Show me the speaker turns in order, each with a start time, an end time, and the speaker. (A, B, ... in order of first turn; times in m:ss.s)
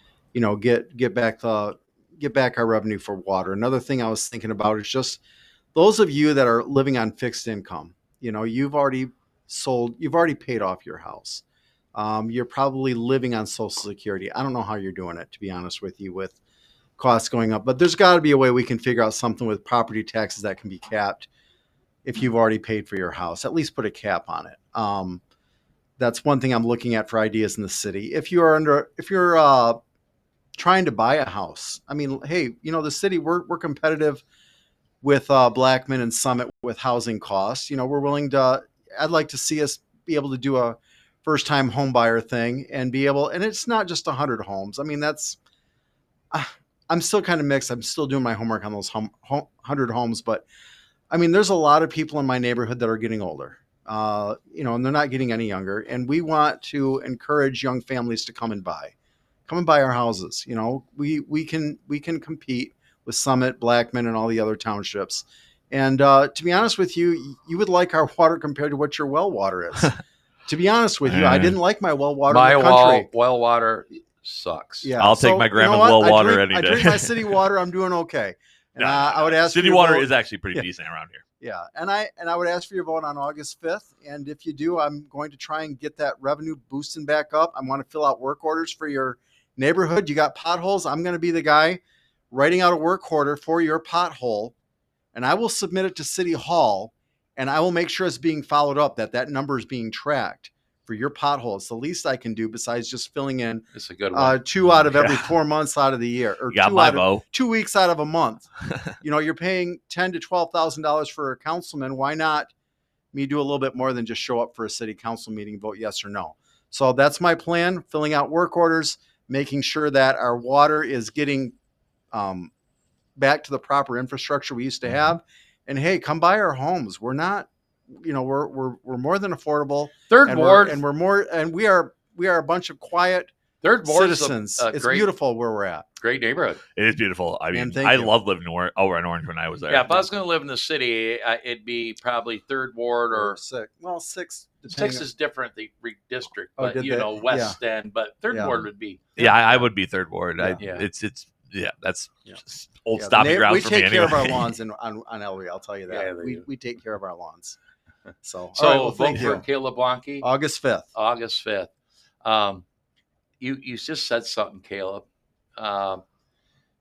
0:00.3-0:05.2 A
0:05.7-0:11.4 A
0:11.9-0:16.4 A
0:17.0-0:21.3 A
0:22.0-0:25.2 A
0:26.0-0:29.8 A
0:30.6-0:34.2 A
0:35.0-0:45.4 A
0:46.3-0:50.4 A
0:51.1-0:58.9 A
0:59.5-1:13.1 A
1:11.0-1:11.6 B
1:12.3-1:14.9 C
1:14.8-1:20.6 A
1:15.0-1:17.4 B
1:18.8-1:21.2 B
1:21.4-1:34.5 A
1:35.1-1:52.5 A
1:43.7-1:44.4 C
1:44.8-1:45.3 B
1:46.5-1:47.2 B
1:53.1-2:01.5 A
2:02.1-2:02.5 A
2:03.2-2:13.3 A
2:10.1-2:10.8 C
2:13.6-2:15.1 C
2:13.8-2:15.8 A
2:16.0-2:16.6 C
2:16.8-2:20.0 B
2:17.5-2:18.1 A
2:19.7-2:23.4 C
2:23.1-2:25.0 A
2:24.7-2:29.1 C
2:26.6-2:27.6 A
2:28.3-2:29.7 A
2:29.2-2:34.6 B
2:30.6-2:30.9 C
2:32.9-2:37.6 A
2:35.9-2:36.4 C
2:38.2-2:39.4 A
2:38.5-2:40.2 C
2:40.2-2:40.9 A
2:40.9-2:41.7 C
2:42.2-2:42.6 C
2:43.4-2:45.0 C
2:45.6-2:46.0 C